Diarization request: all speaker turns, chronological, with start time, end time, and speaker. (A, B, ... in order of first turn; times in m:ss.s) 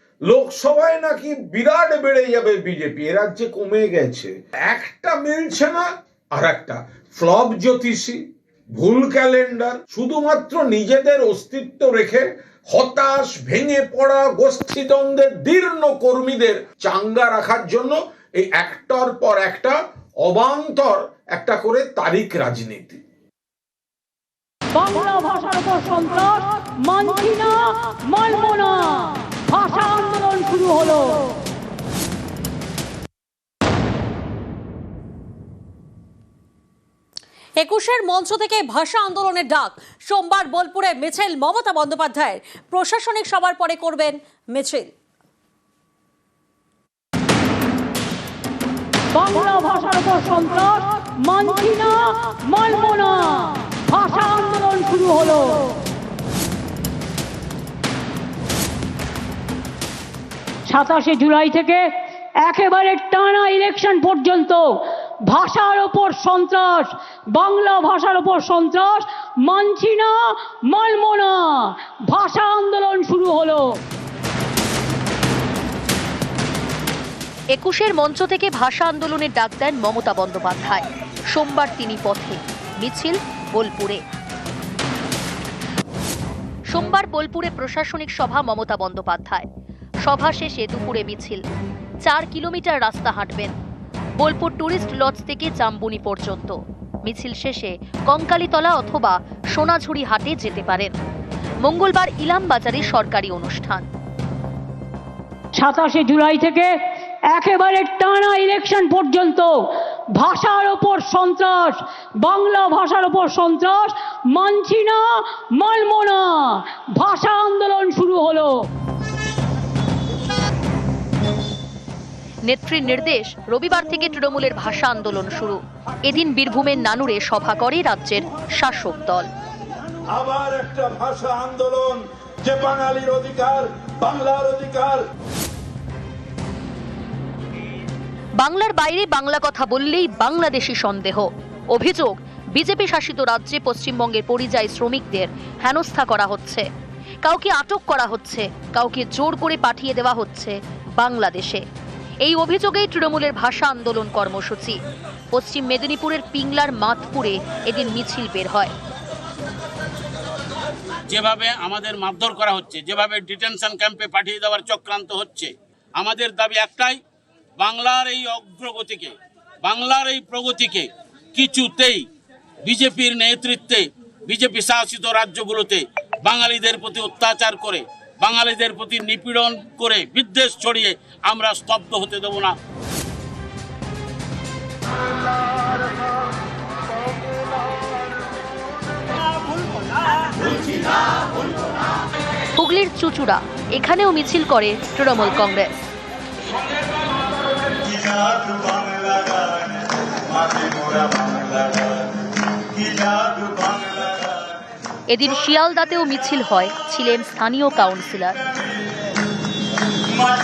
0:00.3-0:08.2 A
0:08.8-0:23.0 A
0:24.7-0:31.2 B
0:37.6-0:44.9 C
0:49.1-0:55.7 B
1:00.7-1:01.9 B
1:02.4-1:13.8 B
1:17.5-1:24.0 D
1:26.7-1:29.4 D
1:30.0-1:31.4 D
1:32.0-1:33.5 D
1:34.2-1:41.0 D
1:41.6-1:43.9 D
1:45.6-1:46.7 B
1:47.3-1:49.5 B
1:50.2-1:58.6 B
2:02.4-2:09.3 D
2:10.1-2:15.0 E
2:18.4-2:26.7 D
2:27.2-2:31.6 D
2:32.2-2:34.8 D
2:35.3-2:38.7 D
2:41.1-2:47.0 F
2:47.6-2:52.0 F
2:52.6-3:02.5 F
3:12.6-3:15.7 D
3:25.1-3:28.5 D